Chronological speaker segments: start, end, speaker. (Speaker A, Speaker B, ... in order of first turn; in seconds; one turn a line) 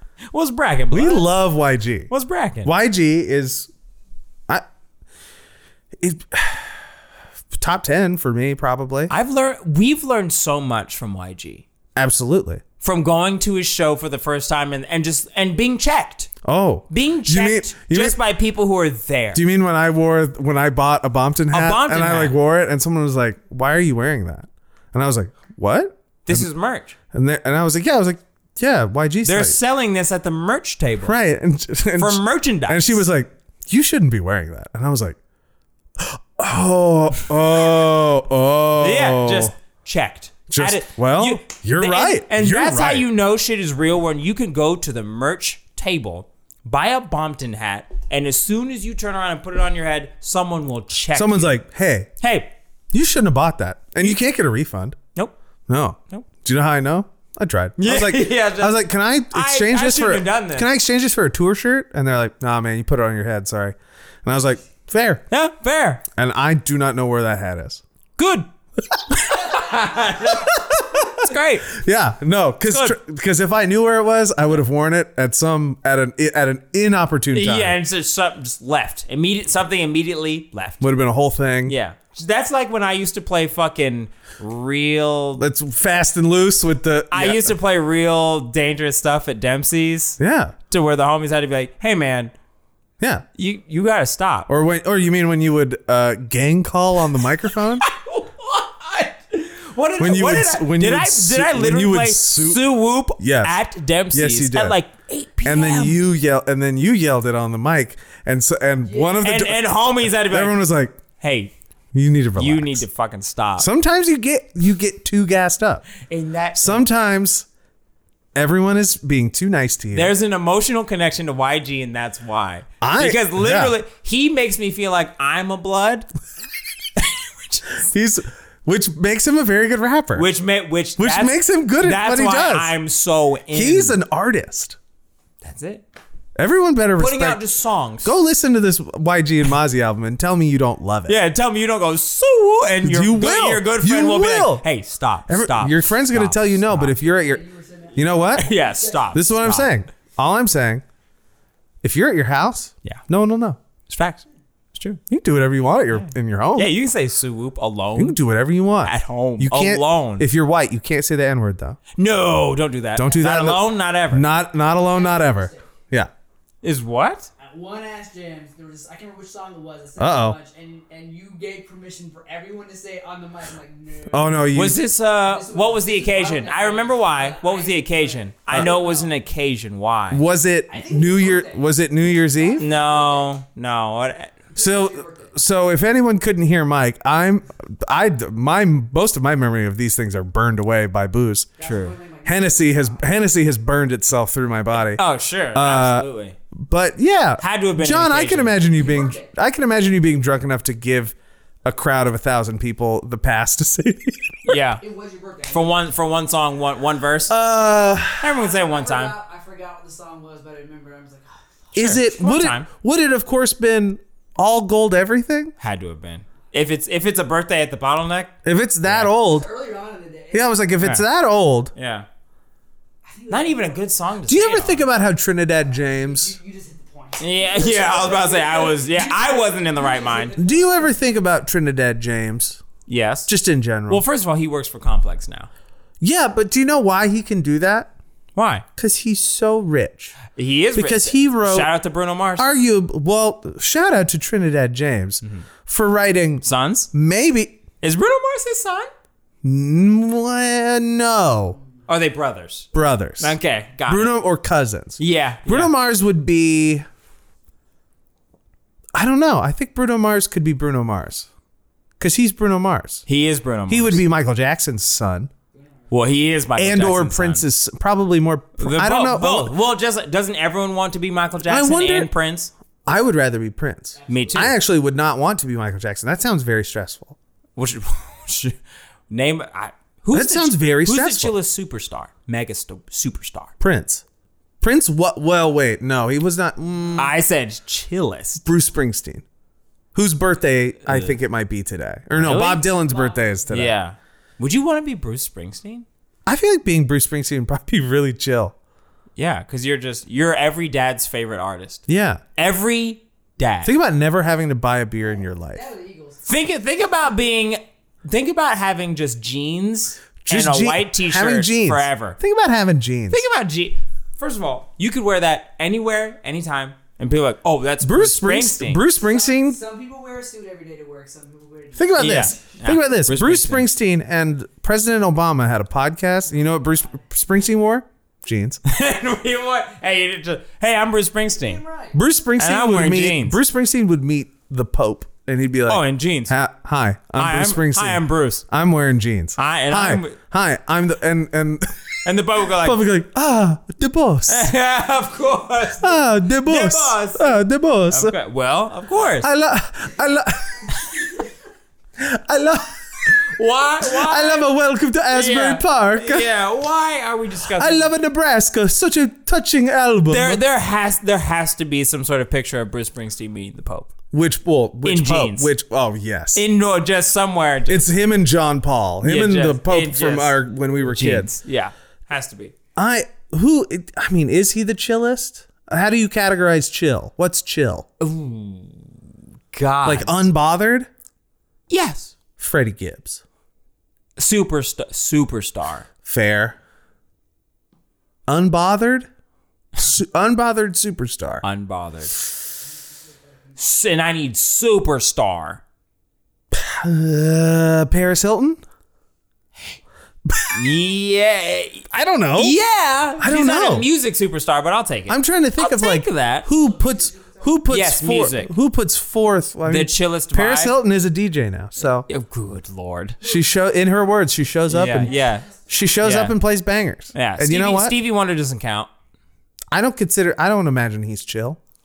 Speaker A: 0.3-1.3
Speaker B: 0.9-2.1
Speaker A: 2.1-2.7
Speaker B: 2.6-3.7
Speaker B: 6.0-6.8
Speaker B: 7.5-9.1
Speaker A: 9.1-11.7
Speaker B: 12.0-12.6
Speaker A: 12.8-16.3
Speaker B: 16.4-18.2
Speaker A: 16.9-19.4
Speaker B: 19.3-26.5
Speaker A: 21.5-22.4
Speaker A: 26.3-26.9
Speaker B: 27.1-29.6
Speaker A: 29.2-31.2
Speaker B: 31.0-35.2
Speaker A: 32.0-33.0
Speaker B: 36.0-39.5
Speaker A: 38.8-51.6
Speaker B: 40.5-43.1
Speaker B: 51.1-52.1
Speaker A: 52.2-52.5
Speaker B: 52.9-55.0
Speaker B: 55.7-65.2
Speaker A: 57.8-60.7
Speaker A: 65.3-66.0
Speaker B: 66.2-67.8
Speaker A: 68.2-68.5
Speaker A: 69.1-71.7
Speaker B: 70.2-77.8
Speaker A: 72.7-73.0
Speaker A: 77.3-80.9
Speaker B: 80.8-81.8
Speaker A: 81.7-85.5
Speaker B: 85.4-87.5
Speaker A: 87.1-90.2
Speaker B: 90.2-90.5
Speaker A: 90.7-92.3
Speaker B: 93.0-93.2
Speaker A: 93.3-94.5
Speaker B: 94.5-97.8
Speaker A: 97.8-106.0
Speaker B: 100.0-102.6
Speaker B: 103.2-103.6
Speaker B: 104.1-104.8
Speaker B: 105.4-111.0
Speaker C: 108.8-109.2
Speaker A: 109.2-110.6
Speaker A: 111.2-111.5
Speaker B: 111.9-112.8
Speaker A: 112.4-113.7
Speaker B: 113.6-115.9
Speaker A: 116.1-116.8
Speaker B: 116.5-117.5
Speaker B: 118.3-120.1
Speaker A: 119.9-126.1
Speaker B: 122.8-123.8
Speaker A: 127.0-127.8
Speaker B: 127.8-130.3
Speaker A: 130.2-134.0
Speaker B: 131.0-132.7
Speaker B: 133.5-134.8
Speaker A: 135.4-135.8
Speaker B: 136.4-137.4
Speaker A: 137.0-138.1
Speaker B: 138.0-141.2
Speaker A: 141.1-146.9
Speaker B: 142.8-144.7
Speaker B: 145.3-147.4
Speaker C: 147.0-149.2
Speaker B: 147.9-148.5
Speaker A: 148.3-149.7
Speaker B: 149.1-150.8
Speaker B: 151.8-153.6
Speaker A: 153.9-155.0
Speaker B: 155.1-156.7
Speaker A: 155.9-158.2
Speaker B: 158.0-161.8
Speaker A: 158.8-160.3
Speaker A: 162.0-164.2
Speaker B: 163.0-166.1
Speaker C: 164.9-165.7
Speaker A: 166.6-167.3
Speaker C: 167.4-174.4
Speaker B: 170.0-170.4
Speaker B: 174.1-174.8
Speaker A: 174.5-180.2
Speaker C: 175.2-179.1
Speaker B: 180.1-182.7
Speaker C: 180.7-183.3
Speaker A: 182.6-184.4
Speaker C: 184.5-185.3
Speaker B: 184.6-191.5
Speaker C: 191.6-193.2
Speaker A: 191.6-192.0
Speaker B: 192.2-195.0
Speaker A: 194.9-196.4
Speaker B: 195.5-204.6
Speaker A: 197.4-198.6
Speaker C: 198.8-199.3
Speaker A: 204.5-204.8
Speaker C: 204.8-205.9
Speaker A: 205.5-207.3
Speaker B: 207.3-208.3
Speaker A: 208.2-209.2
Speaker C: 208.4-211.7
Speaker B: 211.8-215.5
Speaker A: 211.8-212.7
Speaker A: 215.6-218.3
Speaker B: 218.4-219.5
Speaker A: 218.8-219.1
Speaker C: 219.2-220.6
Speaker B: 220.3-221.7
Speaker A: 221.8-222.1
Speaker C: 223.1-223.9
Speaker A: 223.3-224.9
Speaker B: 224.3-226.4
Speaker C: 225.8-231.2
Speaker A: 227.2-230.4
Speaker B: 230.4-232.6
Speaker A: 232.9-233.3
Speaker B: 233.3-234.0
Speaker A: 233.9-235.5
Speaker B: 236.0-237.9
Speaker A: 238.3-238.7
Speaker B: 238.8-240.2
Speaker A: 240.3-242.5
Speaker B: 240.8-241.7
Speaker B: 242.4-247.6
Speaker A: 246.4-246.9
Speaker A: 247.8-248.9
Speaker B: 249.4-251.6
Speaker A: 251.9-254.2
Speaker B: 252.7-253.4
Speaker B: 253.9-256.9
Speaker A: 255.0-255.7
Speaker B: 258.9-261.3
Speaker B: 262.0-263.0
Speaker A: 263.1-264.0
Speaker B: 263.7-265.3
Speaker C: 265.5-265.9
Speaker A: 265.9-267.4
Speaker B: 266.6-269.6
Speaker A: 268.6-272.5
Speaker B: 271.4-272.1
Speaker B: 272.9-277.2
Speaker C: 274.0-274.6
Speaker A: 274.1-274.6
Speaker A: 277.6-278.6
Speaker A: 279.1-283.5
Speaker B: 280.1-281.4
Speaker B: 283.6-284.0
Speaker B: 284.6-287.1
Speaker A: 287.0-288.4
Speaker B: 288.4-289.2
Speaker B: 289.9-293.8
Speaker A: 290.9-291.2
Speaker A: 292.2-292.7
Speaker C: 292.8-293.4
Speaker A: 293.5-295.9
Speaker B: 296.3-298.6
Speaker A: 299.2-301.8
Speaker B: 301.9-302.2
Speaker A: 302.4-303.7
Speaker B: 303.6-305.7
Speaker C: 305.2-306.4
Speaker A: 306.3-312.2
Speaker B: 310.2-313.2
Speaker A: 313.1-318.8
Speaker B: 317.8-319.6
Speaker C: 318.9-322.3
Speaker B: 321.8-328.6
Speaker A: 322.0-323.7
Speaker C: 326.4-326.9
Speaker A: 328.6-331.6
Speaker C: 331.4-332.0
Speaker B: 331.9-341.8
Speaker A: 332.4-333.4
Speaker A: 335.7-336.4
Speaker A: 337.2-338.4
Speaker A: 339.4-340.2
Speaker A: 342.0-342.8
Speaker B: 342.6-344.5
Speaker A: 344.3-349.3
Speaker B: 345.8-348.1
Speaker B: 349.2-350.8
Speaker B: 352.0-353.2
Speaker A: 353.1-354.5
Speaker B: 353.8-356.3
Speaker A: 355.1-357.9
Speaker B: 357.4-360.4
Speaker A: 360.1-363.9
Speaker B: 364.1-366.4
Speaker A: 364.9-365.5
Speaker A: 366.4-367.9
Speaker B: 367.7-371.3
Speaker A: 369.0-372.5
Speaker B: 372.8-377.9
Speaker A: 378.0-378.9
Speaker A: 379.5-380.3
Speaker B: 379.9-380.9
Speaker A: 381.7-382.1
Speaker B: 382.4-383.2
Speaker A: 384.2-385.9
Speaker B: 386.1-386.6
Speaker B: 388.3-389.1
Speaker B: 389.8-391.4
Speaker A: 391.4-392.3
Speaker C: 392.8-393.6
Speaker A: 393.6-395.6
Speaker B: 396.5-398.6
Speaker B: 400.3-400.6
Speaker A: 400.5-406.5
Speaker B: 401.9-402.6
Speaker B: 403.2-403.9
Speaker B: 405.1-412.1
Speaker C: 406.5-407.5
Speaker A: 407.7-408.5
Speaker A: 409.6-410.8
Speaker A: 412.1-413.2
Speaker B: 413.2-417.9
Speaker A: 414.7-415.5
Speaker C: 414.9-415.9
Speaker A: 416.0-416.4
Speaker A: 417.1-418.9
Speaker B: 419.7-421.6